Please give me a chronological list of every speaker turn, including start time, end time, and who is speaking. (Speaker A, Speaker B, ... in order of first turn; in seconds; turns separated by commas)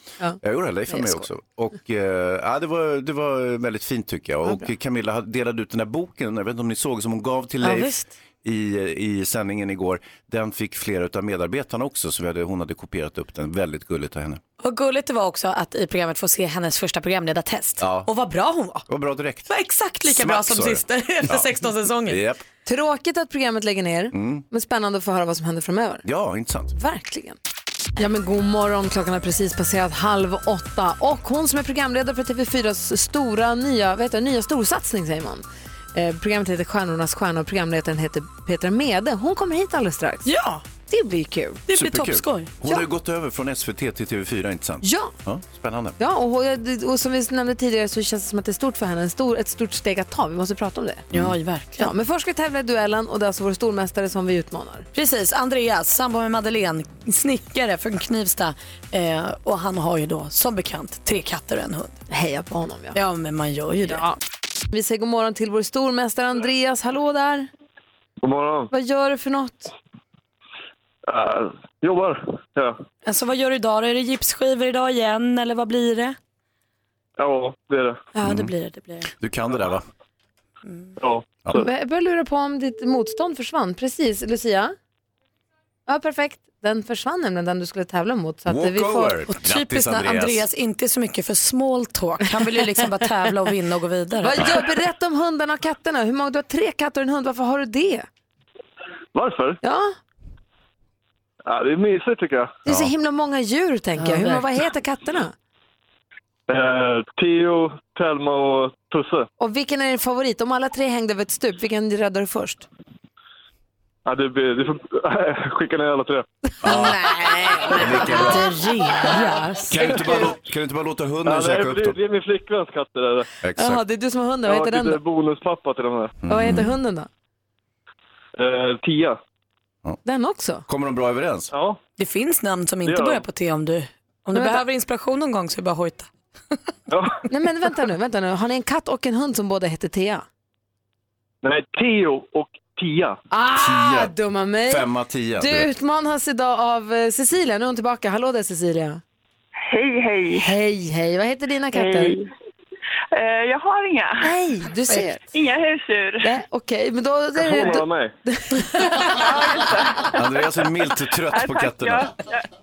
Speaker A: 0.4-14.4, Speaker B: 0.9-1.2, Speaker C: 7.6-8.1, Speaker C: 14.6-18.9, Speaker A: 17.8-18.1, Speaker A: 18.9-19.5, Speaker C: 19.5-22.2, Speaker A: 20.1-21.5, Speaker A: 22.1-22.4, Speaker B: 22.6-26.0, Speaker A: 24.1-24.4, Speaker A: 26.1-26.7, Speaker B: 26.8-27.4, Speaker B: 28.0-40.3, Speaker C: 40.3-40.6, Speaker B: 40.9-41.6, Speaker C: 41.7-42.5, Speaker A: 41.7-46.0, Speaker B: 44.8-45.1, Speaker B: 46.0-51.0, Speaker C: 51.1-51.9, Speaker B: 51.8-54.9, Speaker C: 54.9-62.0, Speaker B: 62.1-63.0, Speaker C: 63.0-64.0, Speaker B: 63.9-64.2, Speaker B: 64.7-67.5, Speaker D: 68.2-68.7, Speaker B: 68.7-69.7, Speaker D: 71.1-72.8, Speaker C: 73.0-76.2, Speaker D: 77.2-78.0, Speaker C: 78.2-79.1, Speaker A: 78.2-78.5, Speaker A: 79.2-79.9, Speaker D: 81.0-81.7, Speaker B: 81.5-84.8, Speaker B: 85.9-89.2, Speaker A: 88.5-90.5, Speaker C: 89.3-94.6, Speaker B: 94.2-98.1, Speaker D: 99.1-99.6, Speaker B: 99.6-100.0, Speaker D: 101.5-102.5, Speaker B: 102.7-105.3, Speaker A: 102.7-102.9, Speaker D: 106.5-109.3, Speaker B: 109.4-112.7, Speaker D: 114.1-116.3, Speaker A: 116.6-117.1, Speaker C: 116.7-119.8, Speaker A: 117.7-118.5, Speaker A: 119.7-122.0, Speaker D: 121.2-123.3, Speaker A: 123.4-123.8, Speaker B: 123.6-125.0, Speaker D: 124.4-126.2, Speaker A: 126.2-126.7, Speaker B: 126.3-127.1, Speaker D: 128.4-129.2, Speaker B: 130.1-130.6, Speaker A: 130.7-131.5, Speaker D: 131.5-131.8, Speaker C: 132.0-136.1, Speaker D: 132.8-133.2, Speaker B: 134.3-134.6, Speaker D: 136.9-137.2, Speaker B: 137.3-140.3, Speaker D: 141.4-143.2, Speaker B: 143.3-144.8, Speaker A: 143.6-144.2, Speaker A: 144.7-145.7, Speaker B: 145.4-149.0, Speaker E: 149.6-150.5, Speaker B: 150.3-152.2, Speaker E: 151.7-152.3, Speaker E: 153.1-154.3, Speaker B: 154.2-155.2, Speaker E: 155.3-156.3, Speaker B: 156.2-159.1, Speaker D: 157.3-158.2, Speaker E: 159.1-160.2, Speaker A: 160.1-162.1, Speaker E: 161.3-162.5